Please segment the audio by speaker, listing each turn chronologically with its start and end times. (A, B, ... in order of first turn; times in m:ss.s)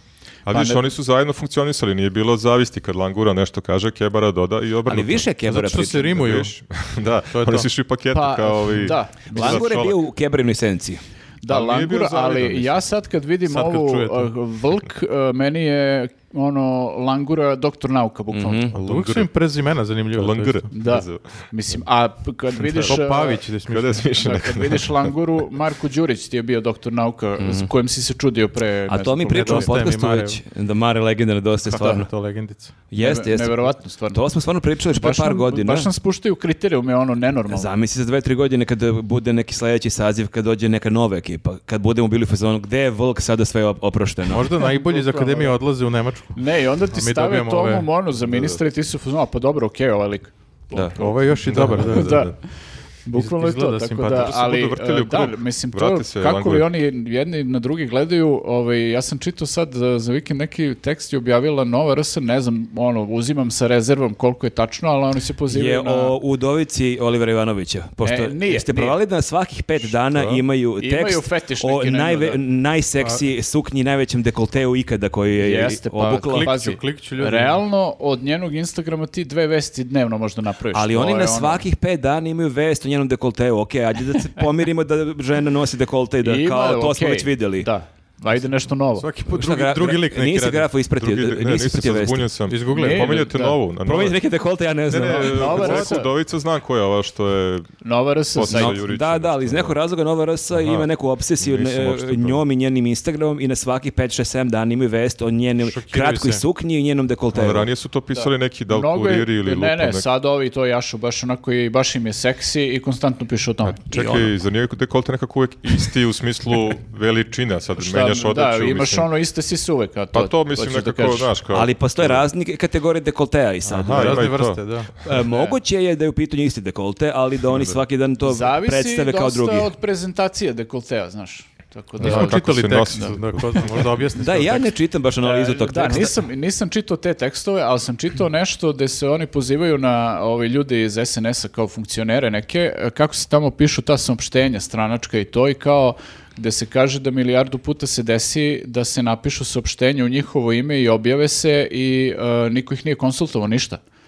0:00.5-0:05.3 A
0:00.5-0:00.9 B
0:04.9-0:06.4 C
0:05.4-0:06.5 D
0:06.2-0:10.0 A
0:07.3-0:07.7 D
0:08.1-0:09.7 B
0:09.3-0:11.0 C
0:11.4-0:18.7 B
0:11.5-0:12.8 A
0:13.5-0:14.3 D
0:18.3-0:18.7 C
0:18.7-0:20.7 D
0:18.7-0:19.3 A
0:20.1-0:21.5 A
0:20.7-0:23.4 B
0:22.8-0:24.1 D
0:23.7-0:25.1 A
0:24.2-0:29.8 B
0:27.4-0:27.7 C
0:28.9-0:32.1 C
0:29.3-0:30.4 D
0:31.7-0:32.0 B
0:31.7-0:32.7 D
0:32.9-0:35.9 C
0:33.0-0:34.2 B
0:35.0-0:37.7 B
0:37.5-0:44.5 C
0:44.3-0:46.4 D
0:44.6-0:45.6 B
0:46.4-0:52.4 B
0:46.9-0:47.9 D
0:48.2-0:48.6 A
0:51.0-0:52.3 D
0:51.5-0:52.3 A
0:53.0-1:06.2 B
0:53.2-0:54.4 D
0:54.1-0:56.7 A
1:05.5-1:16.5 C
1:08.0-1:09.0 B
1:09.8-1:10.4 A
1:10.8-1:12.4 B
1:15.4-1:21.6 B
1:16.3-1:17.6 D
1:20.7-1:27.7 C
1:26.2-1:29.1 B
1:29.0-1:30.7 D
1:29.3-1:32.3 C
1:31.0-1:34.2 A
1:32.5-1:33.2 D
1:32.7-1:33.6 B
1:33.8-1:35.9 C
1:34.9-1:37.7 A
1:35.0-1:36.1 B
1:37.8-1:38.8 B
1:38.3-1:39.8 A
1:38.5-1:47.7 C
1:40.5-1:40.9 A
1:41.4-1:42.4 A
1:45.6-1:46.4 D
1:47.3-1:50.0 A
1:48.1-1:54.3 B
1:53.8-1:59.1 A
1:57.8-2:01.3 B
2:00.1-2:02.2 A
2:01.5-2:04.4 C
2:03.7-2:04.6 A
2:03.9-2:04.9 D
2:05.0-2:09.7 C
2:05.3-2:05.5 B
2:07.5-2:07.8 A
2:08.2-2:13.2 B
2:12.0-2:13.7 A
2:12.0-2:14.7 D
2:14.2-2:16.2 C
2:15.2-2:33.8 B